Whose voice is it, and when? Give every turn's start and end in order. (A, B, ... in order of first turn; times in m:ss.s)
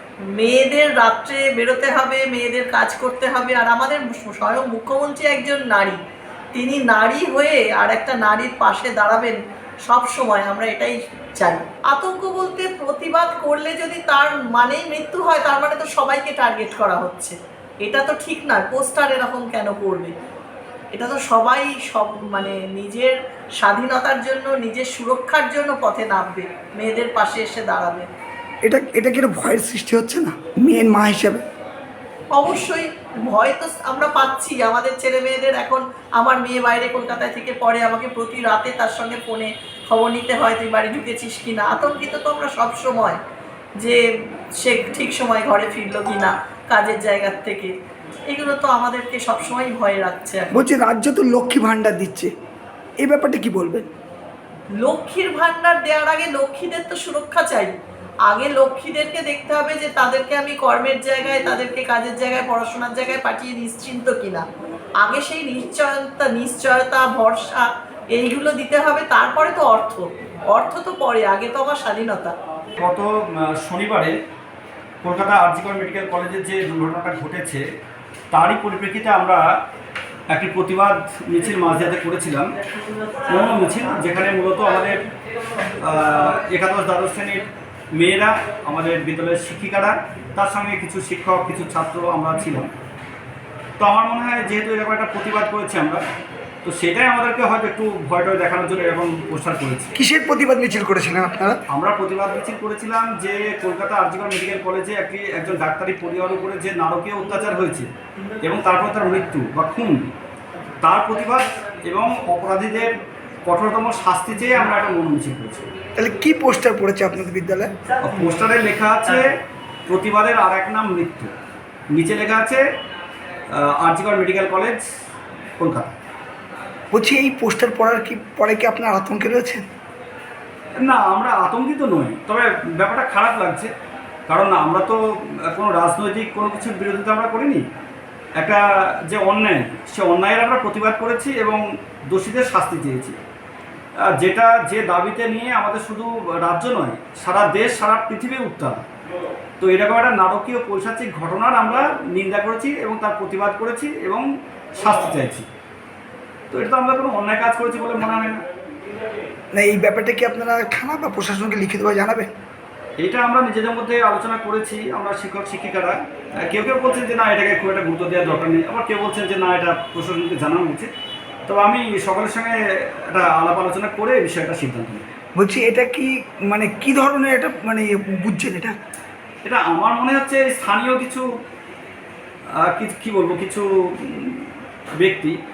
0:00.4-0:06.0 A
0:06.5-0:20.1 A
0:20.9-0:28.1 A
0:28.6-0:31.4 B
0:32.3-0:43.2 A
0:44.6-0:47.7 A
0:48.3-0:50.5 A
0:50.5-0:52.3 B
0:53.0-0:53.8 B
0:54.8-1:04.4 A
1:05.0-1:12.3 A
1:12.8-1:14.1 C
1:15.0-1:17.6 C
1:18.3-1:19.4 C
1:20.3-1:22.5 C
1:23.3-1:25.0 C
1:25.8-1:32.7 C
1:33.8-1:36.0 C
1:36.6-1:39.9 C
1:40.0-1:41.6 B
1:41.7-1:47.8 C
1:48.4-1:50.1 C
1:50.8-1:52.9 C
1:53.4-1:55.7 C
1:56.0-1:57.7 B
1:58.0-1:59.3 C
1:59.9-2:01.3 C
2:01.9-2:02.6 C
2:03.5-2:04.8 C
2:05.6-2:05.9 C
2:06.9-2:09.6 B
2:10.8-2:13.7 C
2:14.3-2:17.6 C
2:18.4-2:23.1 C
2:24.2-2:28.8 C
2:29.6-2:34.2 C
2:34.8-2:35.4 C
2:36.5-2:38.4 C
2:39.5-2:42.3 B
2:43.0-2:45.9 C
2:46.5-2:50.9 C
2:51.5-2:52.5 C
2:53.1-2:55.1 C
2:55.4-2:58.7 B
2:59.4-3:01.2 C
3:02.7-3:04.4 C
3:05.0-3:05.3 C